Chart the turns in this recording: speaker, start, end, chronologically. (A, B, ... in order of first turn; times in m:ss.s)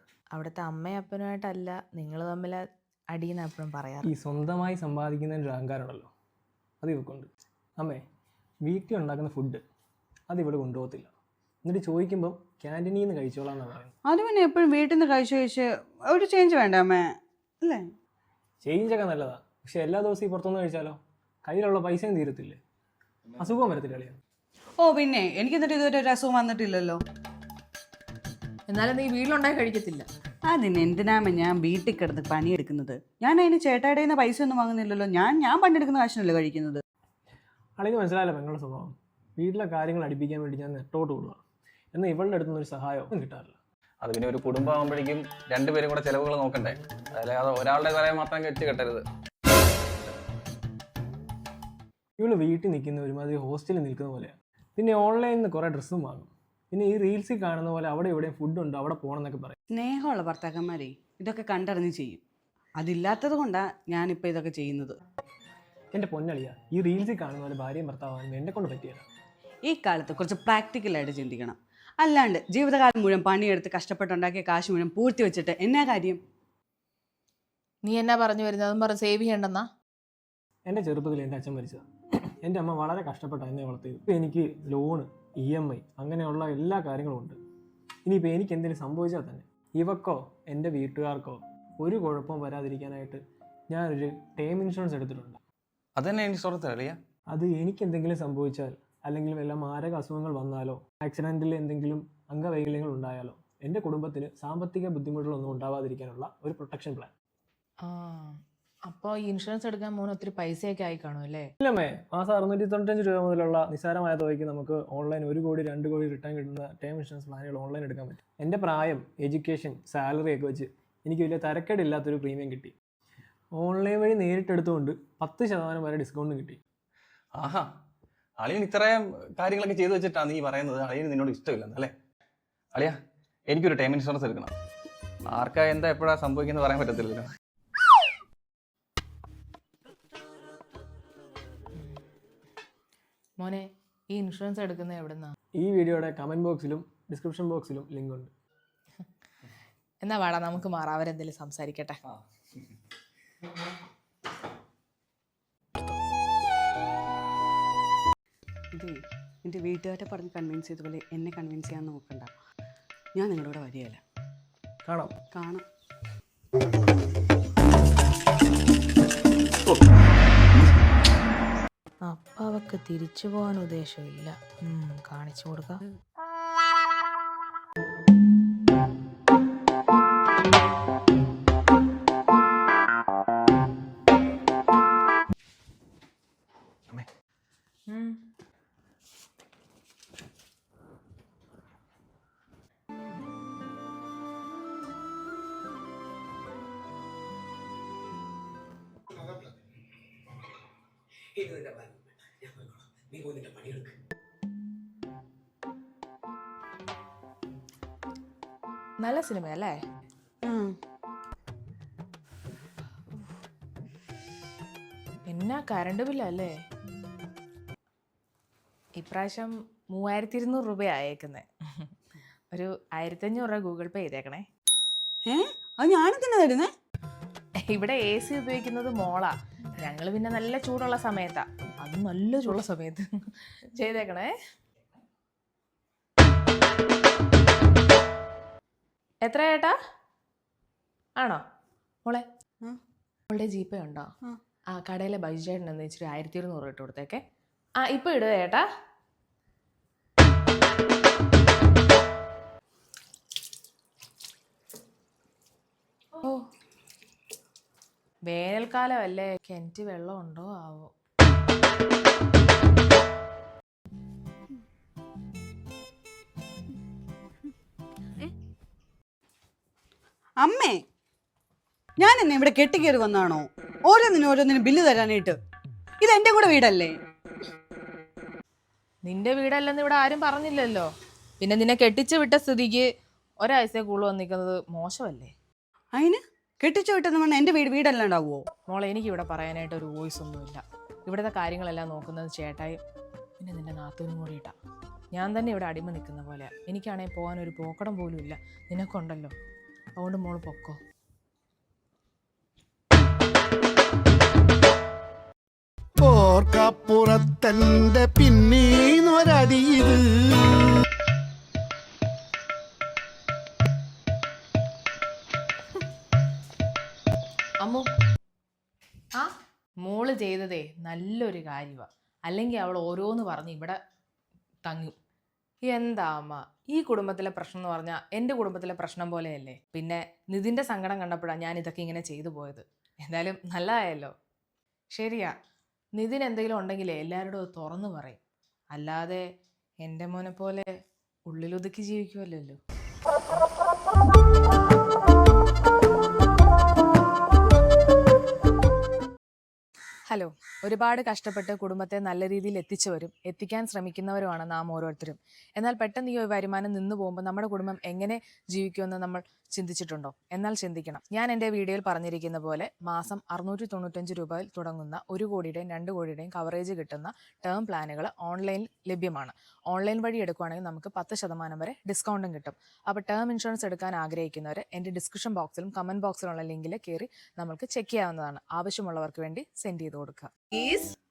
0:00.3-0:04.1 A
0:04.0-0:06.1 B
0:06.8-0:08.0 B
0:08.6-0:09.6 B
0:10.3-0:11.1 B
0:11.6-0:13.9 B
0:14.1-0:17.1 C
0:18.6-0:22.6 B
0:23.4-0:24.2 B
0:24.8-0:27.0 C
0:28.7-0:30.1 A
0:30.5-0:36.8 C
0:37.8-0:41.4 B
0:41.9-0:43.6 B
0:44.0-0:49.0 D
0:52.2-0:59.6 B
0:59.7-1:02.2 C
1:02.8-1:05.0 C
1:05.9-1:09.1 B
1:09.7-1:16.2 C
1:17.8-1:19.7 A
1:20.7-1:27.4 B
1:28.0-1:35.4 B
1:36.0-1:37.0 D
1:37.3-1:47.1 B
1:47.8-1:51.5 A
1:51.6-2:02.8 B
2:03.6-2:06.6 B
2:07.4-2:07.6 D
2:08.4-2:11.9 D
2:13.5-2:14.5 D
2:15.3-2:17.2 D
2:23.4-2:25.3 A
2:25.6-2:28.3 B
2:30.0-2:32.0 A
2:38.7-2:42.3 C
2:43.2-2:44.0 C
2:45.3-2:45.6 C
2:52.0-2:55.8 A
3:07.9-3:08.2 A
3:21.4-3:21.9 E
3:22.5-3:23.9 E
3:29.0-3:29.8 A
3:30.4-3:30.8 C
3:35.3-3:36.5 A
3:39.0-3:41.9 A
3:42.5-3:44.5 A
3:45.3-3:46.7 C
3:47.6-3:54.3 A
3:59.2-3:59.7 A
4:01.2-4:01.4 A
4:03.3-4:04.1 A
4:04.7-4:07.2 A
4:07.8-4:08.6 A
4:16.2-4:16.4 A
4:18.3-4:20.9 A
4:30.4-4:30.8 C
4:32.0-4:35.4 C
4:36.0-4:36.9 C
4:39.0-4:42.9 A
4:43.4-4:45.3 A
4:46.0-4:48.5 C
4:48.7-4:52.8 A
4:53.4-4:54.6 A
4:55.1-4:59.3 A
5:00.0-5:00.8 A
5:06.0-5:10.6 F
5:19.8-5:23.8 A
5:24.7-5:25.0 A
5:25.7-5:34.1 A
5:34.9-5:35.4 A
5:36.0-5:38.2 A
5:38.7-5:39.2 A
5:39.8-5:40.7 A
5:41.3-5:42.6 A
5:50.1-6:20.9 A